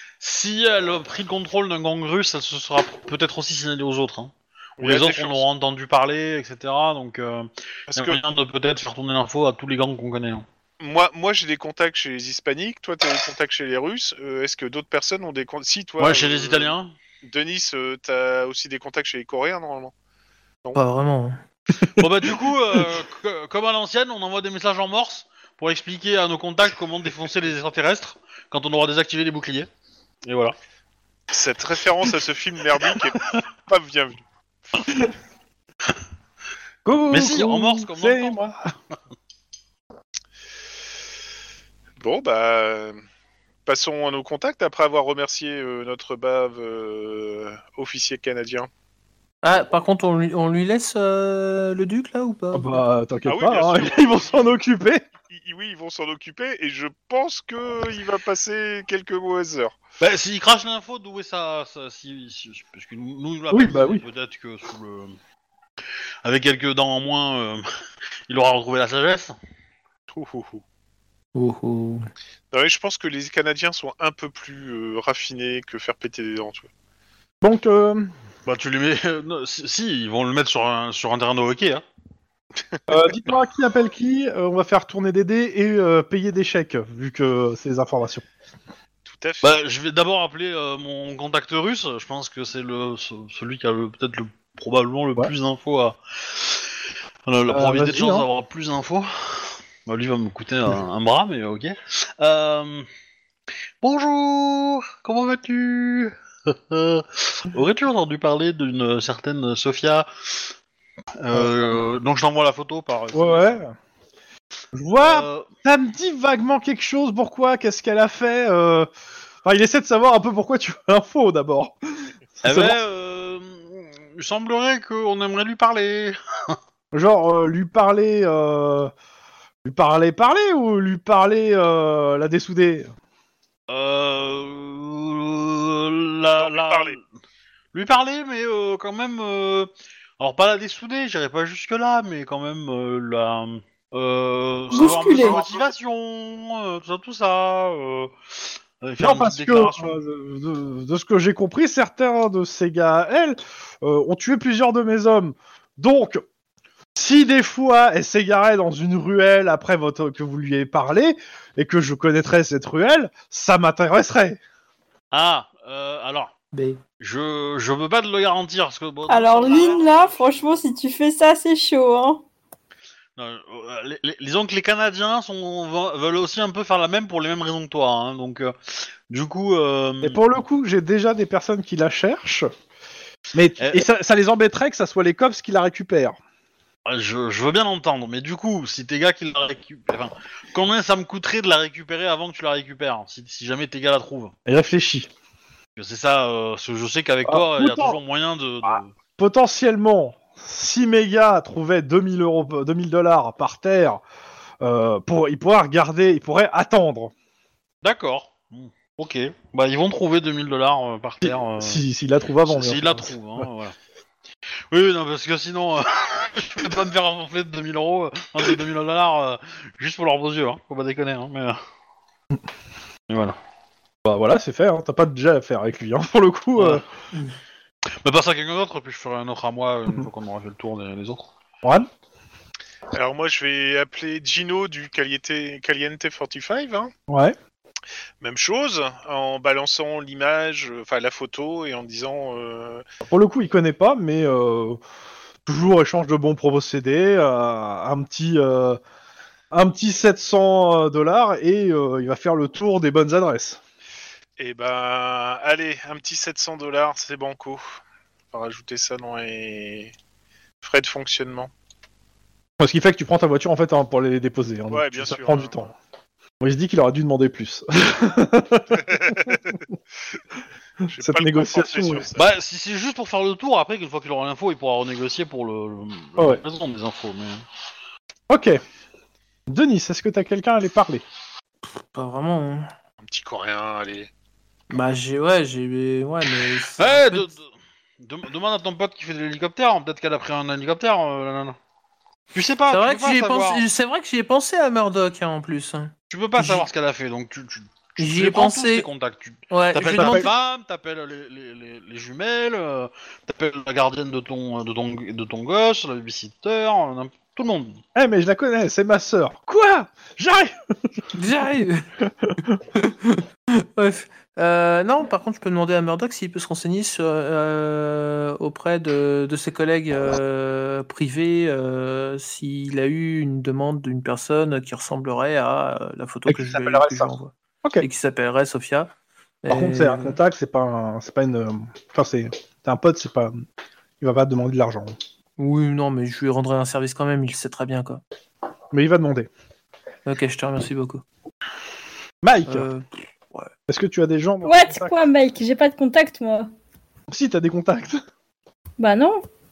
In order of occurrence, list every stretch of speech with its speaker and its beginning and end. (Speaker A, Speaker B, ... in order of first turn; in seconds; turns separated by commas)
Speaker A: 0.2-10.4, Speaker B: 4.8-5.4, Speaker B: 7.9-8.2, Speaker B: 10.8-19.9, Speaker A: 16.0-16.9, Speaker C: 20.7-21.4, Speaker D: 21.7-22.0, Speaker A: 21.9-29.7, Speaker A: 30.2-30.5, Speaker B: 31.3-34.2, Speaker D: 36.8-38.6, Speaker A: 37.1-38.3, Speaker B: 42.0-43.0, Speaker B: 43.6-48.7, Speaker C: 49.4-52.8, Speaker D: 52.5-55.0, Speaker B: 53.2-54.5, Speaker B: 55.3-59.8, Speaker A: 60.0-65.1, Speaker D: 63.5-64.0, Speaker A: 66.2-67.6, Speaker A: 68.3-69.3, Speaker B: 70.1-70.6, Speaker C: 71.3-72.0, Speaker B: 72.5-76.7, Speaker D: 77.4-78.1, Speaker A: 78.5-81.8, Speaker D: 82.9-88.2, Speaker B: 89.0-89.5, Speaker A: 89.4-96.7, Speaker A: 97.2-102.9, Speaker D: 97.5-98.3, Speaker A: 103.8-110.5, Speaker A: 111.2-113.6, Speaker D: 111.3-111.8, Speaker D: 113.1-113.7, Speaker D: 114.7-118.9, Speaker A: 115.0-115.5, Speaker D: 119.4-122.8, Speaker A: 122.4-126.6, Speaker D: 126.9-128.9, Speaker D: 129.6-132.9, Speaker A: 133.7-137.0, Speaker B: 136.4-137.0, Speaker A: 137.7-148.1, Speaker E: 144.7-145.4, Speaker B: 145.1-145.7, Speaker A: 148.8-149.9, Speaker D: 149.0-156.2, Speaker D: 156.9-164.4, Speaker A: 165.1-166.3, Speaker C: 166.5-166.8, Speaker A: 167.0-170.5, Speaker E: 169.1-172.2, Speaker A: 173.2-180.2, Speaker D: 180.0-182.5, Speaker D: 183.3-186.2, Speaker A: 186.8-194.3, Speaker D: 194.4-195.1, Speaker A: 195.8-198.9, Speaker D: 197.2-198.0, Speaker D: 198.7-204.0, Speaker D: 204.6-207.1, Speaker A: 207.8-211.8, Speaker D: 211.2-213.5, Speaker A: 212.4-213.7, Speaker A: 214.7-221.6, Speaker A: 223.1-223.3, Speaker D: 224.0-226.8, Speaker A: 226.6-226.8, Speaker A: 228.0-231.3, Speaker D: 231.6-231.9, Speaker B: 232.9-236.9, Speaker D: 237.1-237.3, Speaker B: 238.2-242.8, Speaker D: 243.1-244.8, Speaker D: 245.4-248.8, Speaker D: 249.5-253.6, Speaker B: 254.4-257.6, Speaker B: 258.3-259.9, Speaker B: 260.6-261.5, Speaker D: 262.6-265.7, Speaker B: 264.7-265.7, Speaker D: 266.4-269.6, Speaker B: 268.8-269.6, Speaker B: 270.9-272.2, Speaker D: 271.0-272.1, Speaker A: 272.1-277.4, Speaker D: 278.3-278.6, Speaker D: 279.5-281.0, Speaker C: 281.9-282.7, Speaker B: 283.0-284.1, Speaker C: 284.7-287.3, Speaker A: 286.8-287.5, Speaker A: 288.0-291.6, Speaker A: 292.3-293.6, Speaker C: 292.7-296.7, Speaker A: 296.1-307.8, Speaker C: 298.0-298.9, Speaker C: 299.5-300.3, Speaker D: 299.8-300.3, Speaker D: 307.9-310.5, Speaker C: 311.1-311.9, Speaker D: 312.2-312.6, Speaker C: 312.7-328.9, Speaker D: 326.3-327.1, Speaker C: 329.4-330.2, Speaker D: 329.5-333.4, Speaker D: 334.0-334.9, Speaker C: 335.4-338.0, Speaker D: 338.7-339.3, Speaker C: 340.1-341.0, Speaker D: 342.2-342.7, Speaker C: 342.5-343.5, Speaker D: 343.7-345.0, Speaker E: 344.4-346.5, Speaker D: 347.1-348.0, Speaker E: 348.8-349.2